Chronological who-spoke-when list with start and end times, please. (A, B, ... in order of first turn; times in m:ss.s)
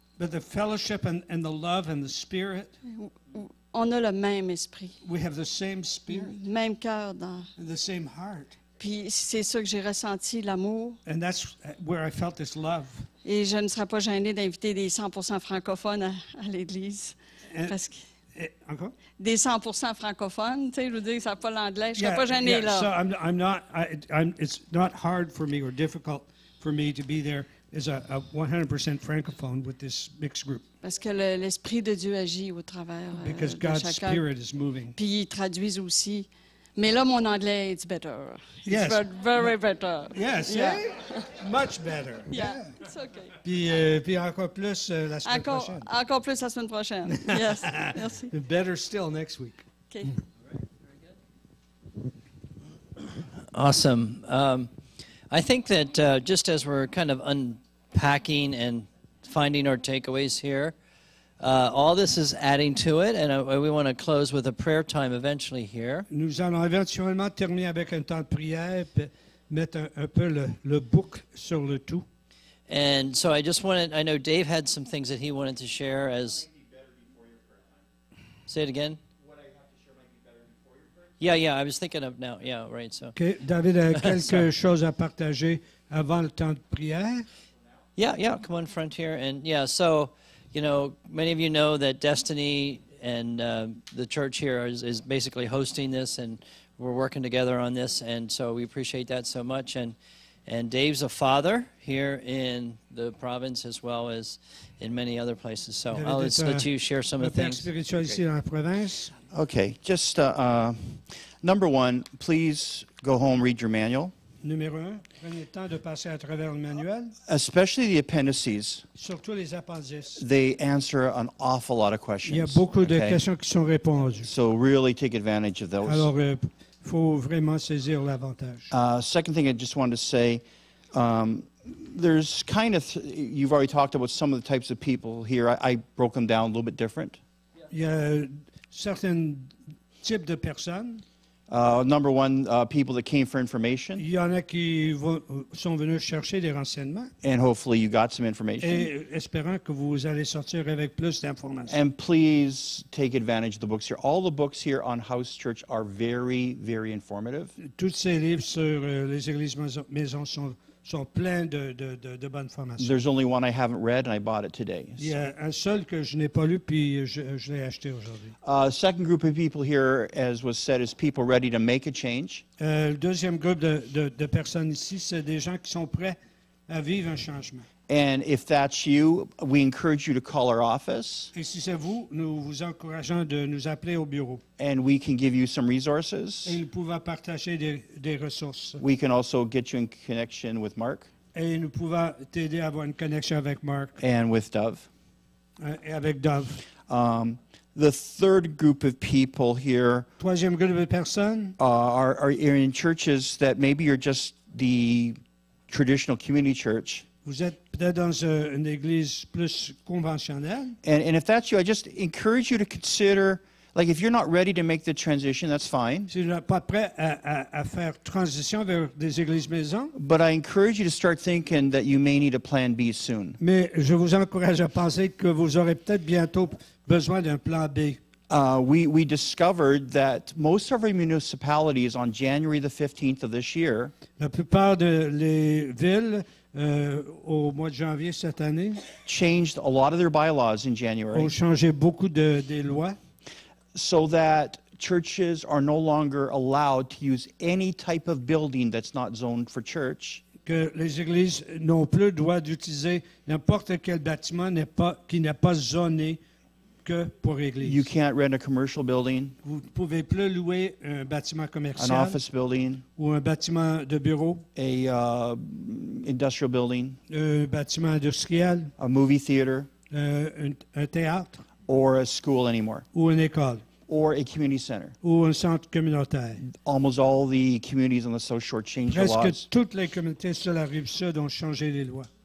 0:00.2-0:02.7 A
0:02.9-0:05.0 B
0:05.0-0:06.4 A
0:06.1-0:07.5 B
0:07.6-0:08.5 A
0:08.8-0:11.0 B
0:11.0-0:13.1 A
0:13.2-0:18.0 B
0:17.5-0:17.8 A
0:18.3-0:19.0 A
0:19.2-0:22.9 B
0:22.0-0:30.7 A
0:30.8-0:34.2 B
0:33.2-0:35.0 A
0:35.0-0:41.3 B
0:38.6-0:39.5 A
0:40.1-0:42.8 A
0:42.3-0:43.4 B
0:43.4-0:45.9 A
0:45.2-0:48.3 B
0:47.1-0:49.6 A
0:49.9-0:50.2 B
0:53.5-0:54.7 C
0:55.3-1:00.7 C
1:01.4-1:06.1 C
1:06.1-1:12.0 A
1:12.7-1:16.5 C
1:16.7-1:17.7 D
1:18.5-1:19.0 C
1:19.4-1:20.8 D
1:21.2-1:23.2 C
1:23.2-1:27.3 A
1:23.9-1:24.4 C
1:28.0-1:39.9 C
1:40.5-1:47.7 C
1:45.9-1:49.1 A
1:49.3-1:54.1 D
1:54.4-1:57.2 A
1:57.3-1:58.8 D
1:59.0-2:00.2 A
2:00.2-2:03.2 D
2:02.3-2:04.3 A
2:04.2-2:06.1 D
2:05.8-2:08.7 A
2:08.7-2:17.2 D
2:17.7-2:21.0 A
2:21.5-2:24.0 D
2:24.0-2:27.1 A
2:27.2-2:28.9 D
2:28.6-2:31.8 A
2:31.7-2:37.5 D
2:37.6-2:42.9 A
2:42.8-2:45.1 D
2:45.0-2:48.4 A
2:48.4-2:52.4 D
2:52.6-2:56.2 A
2:56.7-2:57.6 A
2:57.9-3:01.3 D
3:01.3-3:04.4 A
3:04.6-3:06.6 D
3:06.4-3:08.8 A
3:08.8-3:11.1 D
3:11.3-3:14.0 A
3:14.0-3:14.9 D
3:15.6-3:16.6 A
3:16.8-3:20.1 D
3:20.2-3:21.6 A
3:21.6-3:27.1 D
3:27.2-3:30.8 A
3:30.8-3:36.1 D
3:36.1-3:39.9 A
3:39.9-3:43.4 D
3:43.4-3:48.0 A
3:48.3-3:53.9 D
3:54.2-3:58.8 A
3:59.0-4:01.3 D
4:01.1-4:03.0 A
4:03.7-4:10.2 D
4:10.4-4:16.2 A
4:16.8-4:17.8 A
4:17.6-4:19.4 D
4:19.4-4:22.2 A
4:21.8-4:22.8 D
4:23.0-4:24.4 A
4:24.6-4:27.0 D
4:27.1-4:28.7 A
4:28.8-4:29.7 D
4:29.9-4:31.4 A
4:31.7-4:32.9 D
4:32.9-4:33.6 A
4:33.9-4:35.0 D
4:35.0-4:36.4 A
4:36.4-4:39.5 D
4:38.9-4:42.1 A